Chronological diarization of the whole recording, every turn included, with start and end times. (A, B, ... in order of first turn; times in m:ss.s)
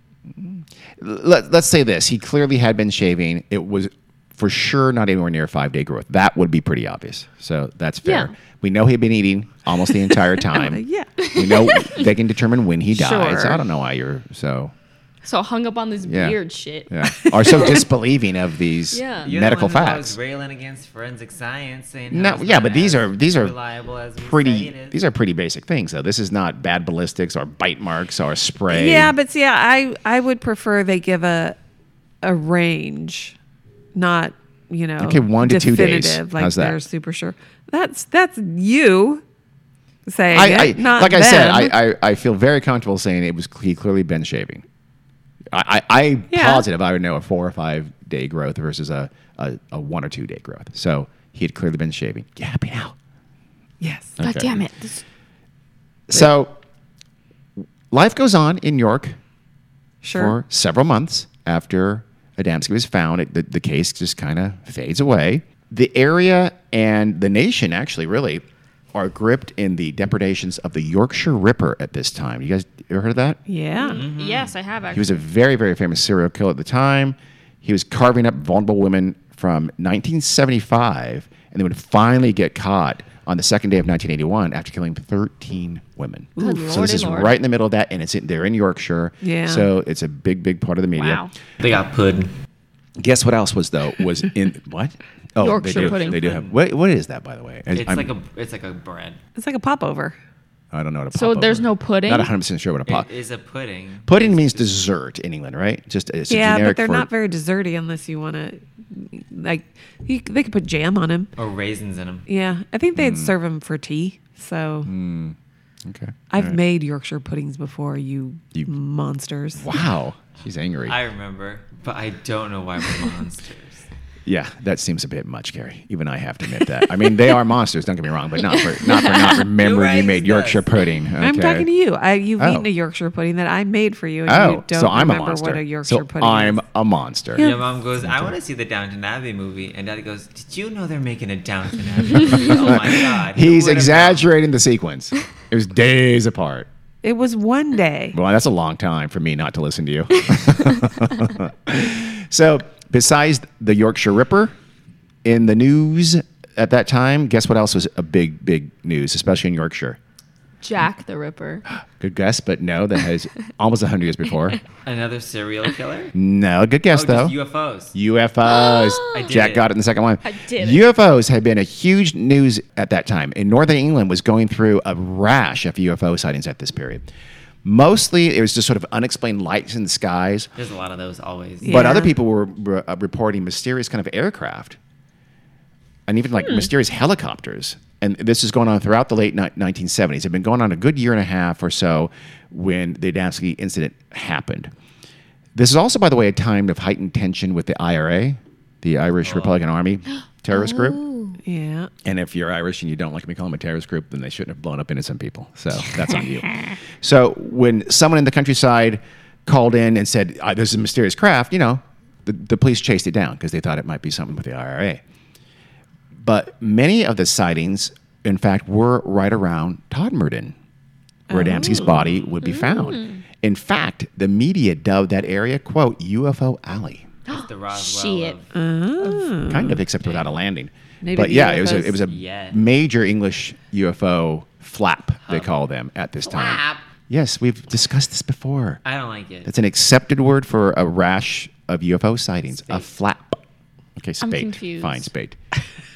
0:00.3-0:14.7 A
0:08.0-0:08.3 B
0:10.5-0:11.3 C
0:11.2-0:12.1 B
0:12.9-0:13.6 C
0:15.2-0:17.8 B
0:16.0-0:20.2 A
0:17.3-0:17.6 C
0:18.9-0:19.3 B
0:19.2-0:25.0 D
0:22.1-0:23.5 A
0:24.2-0:29.1 A
0:28.7-0:31.6 C
0:32.2-0:33.3 C
0:33.9-0:39.2 C
0:35.0-0:36.8 A
0:40.0-0:41.7 C
0:40.3-0:44.6 A
0:45.5-0:52.9 A
0:46.3-0:46.6 C
0:53.8-0:54.2 C
0:54.2-0:54.6 A
0:54.2-0:55.0 B
0:56.1-0:56.6 A
0:57.9-0:59.2 A
1:00.0-1:00.4 C
1:00.1-1:08.4 A
1:08.9-1:13.4 A
1:13.5-1:14.0 C
1:13.8-1:15.1 B
1:13.9-1:14.5 D
1:14.9-1:31.3 A
1:26.4-1:27.4 B
1:29.2-1:29.7 C
1:30.9-1:31.3 B
1:31.6-1:32.3 D
1:33.0-1:38.1 A
1:35.4-1:36.2 B
1:35.6-1:36.5 D
1:37.7-1:39.2 D
1:39.4-1:40.2 C
1:40.7-1:43.1 A
1:41.1-1:42.3 B
1:42.9-1:44.8 D
1:44.1-1:47.1 A
1:46.3-1:51.3 C
1:51.4-1:52.2 D
1:52.3-1:54.9 C
1:53.0-1:53.4 A
1:54.8-1:56.6 A
1:56.3-1:59.7 C
1:59.6-2:01.0 A
2:00.8-2:03.8 D
2:04.2-2:11.7 A
2:08.5-2:09.4 B
2:09.6-2:10.7 D
2:11.2-2:16.6 C
2:12.4-2:12.7 A
2:14.2-2:18.4 A
2:17.4-2:24.3 D
2:22.2-2:26.7 A
2:27.0-2:28.2 C
2:28.1-2:34.5 A
2:35.2-2:40.0 A
2:40.6-2:41.6 B
2:42.0-2:44.6 A
2:44.8-2:46.1 D
2:46.1-2:47.4 A
2:46.9-2:47.9 D
2:47.9-2:57.0 A
2:48.4-2:49.3 B
2:49.1-2:49.7 D
2:50.2-2:50.8 B
2:57.6-3:00.5 A
3:00.6-3:01.8 D
3:01.6-3:02.1 C
3:01.6-3:04.8 A
3:01.7-3:02.1 B
3:06.1-3:14.7 A
3:15.5-3:21.0 A
3:19.2-3:19.6 D
3:20.5-3:21.4 B
3:21.4-3:21.9 C
3:22.0-3:35.0 A
3:36.2-3:40.5 A
3:41.3-3:42.1 C
3:41.3-3:47.1 A
3:42.4-3:43.2 B
3:47.3-3:48.4 B
3:47.3-3:48.5 D
3:48.5-3:49.8 C
3:49.4-3:58.8 A
3:50.0-3:50.3 D
3:51.0-3:52.0 C
3:51.9-3:52.6 D
3:55.2-3:55.6 D
3:56.2-3:56.8 D
3:58.8-3:59.5 D
3:59.4-4:03.4 A
4:02.5-4:02.9 D
4:04.0-4:05.4 A
4:04.2-4:05.1 B